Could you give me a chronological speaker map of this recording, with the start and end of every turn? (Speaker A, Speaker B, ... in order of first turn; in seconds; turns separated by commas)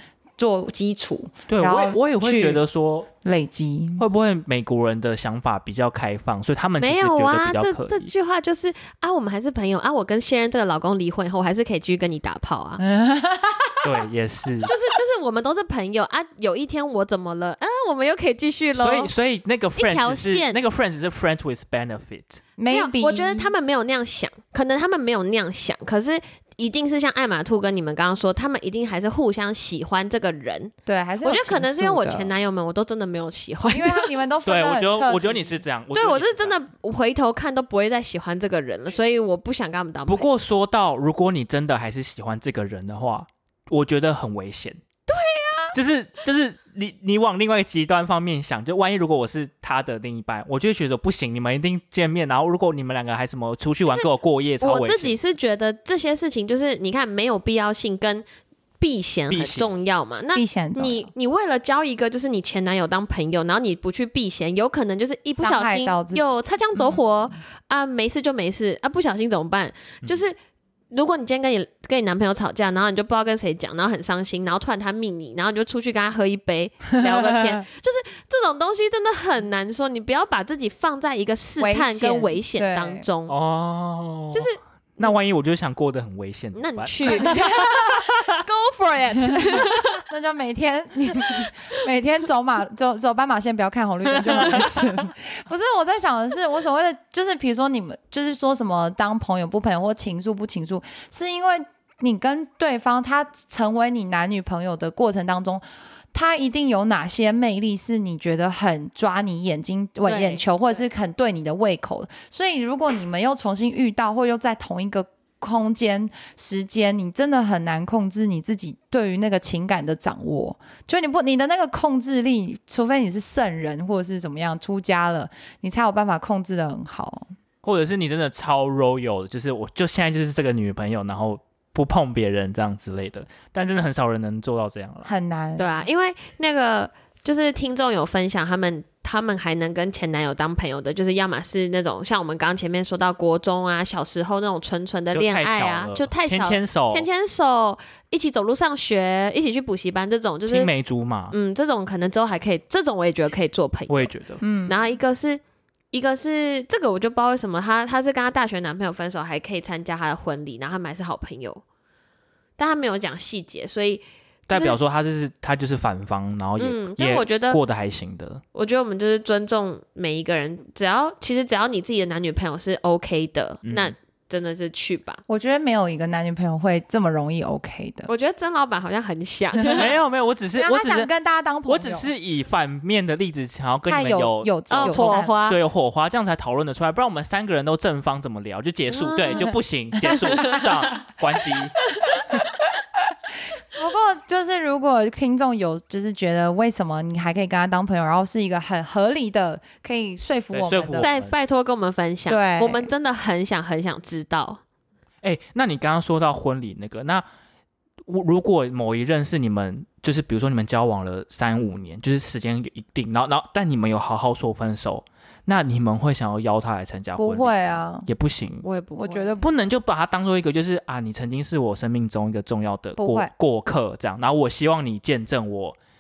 Speaker A: 0.4-2.6, Speaker B: 1.5-3.1, Speaker A: 3.2-4.0, Speaker B: 4.0-8.1, Speaker C: 6.8-12.8, Speaker A: 12.8-14.0, Speaker B: 13.8-14.7, Speaker C: 14.6-19.1, Speaker B: 18.8-22.4, Speaker C: 19.8-20.6, Speaker A: 22.6-23.5, Speaker C: 22.7-30.7, Speaker A: 30.9-32.3, Speaker C: 31.2-34.1, Speaker A: 33.7-35.6, Speaker B: 34.5-36.6, Speaker C: 35.9-40.3, Speaker B: 40.1-44.8, Speaker C: 45.1-45.8, Speaker B: 45.7-55.2, Speaker C: 54.6-58.2, Speaker C: 58.8-70.4, Speaker B: 59.3-59.7, Speaker A: 60.4-61.1, Speaker A: 65.4-66.3, Speaker C: 70.9-83.3, Speaker A: 77.0-77.6, Speaker A: 81.6-83.0, Speaker B: 83.3-87.4, Speaker C: 84.3-85.1, Speaker C: 86.5-90.0, Speaker A: 87.1-88.1, Speaker A: 89.2-127.3, Speaker C: 91.2-91.5, Speaker B: 94.1-94.8, Speaker C: 110.0-110.4, Speaker B: 127.6-135.1, Speaker A: 135.1-135.7, Speaker C: 135.6-150.7, Speaker B: 145.1-147.1, Speaker B: 150.5-151.3, Speaker C: 151.3-154.1, Speaker B: 153.9-154.4, Speaker A: 154.4-154.8, Speaker C: 154.7-155.4, Speaker C: 155.9-161.6, Speaker C: 162.6-164.8, Speaker B: 164.5-168.4, Speaker C: 166.6-167.6, Speaker C: 168.6-175.2, Speaker B: 173.6-173.9, Speaker A: 175.3-178.1, Speaker C: 178.1-179.9, Speaker B: 179.8-181.1, Speaker A: 180.6-182.1, Speaker B: 181.7-191.8, Speaker A: 183.9-185.3, Speaker C: 184.7-185.6, Speaker C: 188.9-189.5, Speaker A: 189.3-190.7, Speaker C: 190.4-190.6, Speaker A: 193.7-201.1, Speaker B: 200.5-201.3, Speaker C: 201.0-204.6, Speaker A: 202.3-202.9, Speaker B: 205.2-207.2, Speaker B: 208.1-218.7, Speaker A: 217.2-218.1, Speaker C: 218.6-219.4, Speaker A: 218.9-219.5, Speaker B: 219.4-225.8, Speaker A: 223.0-223.3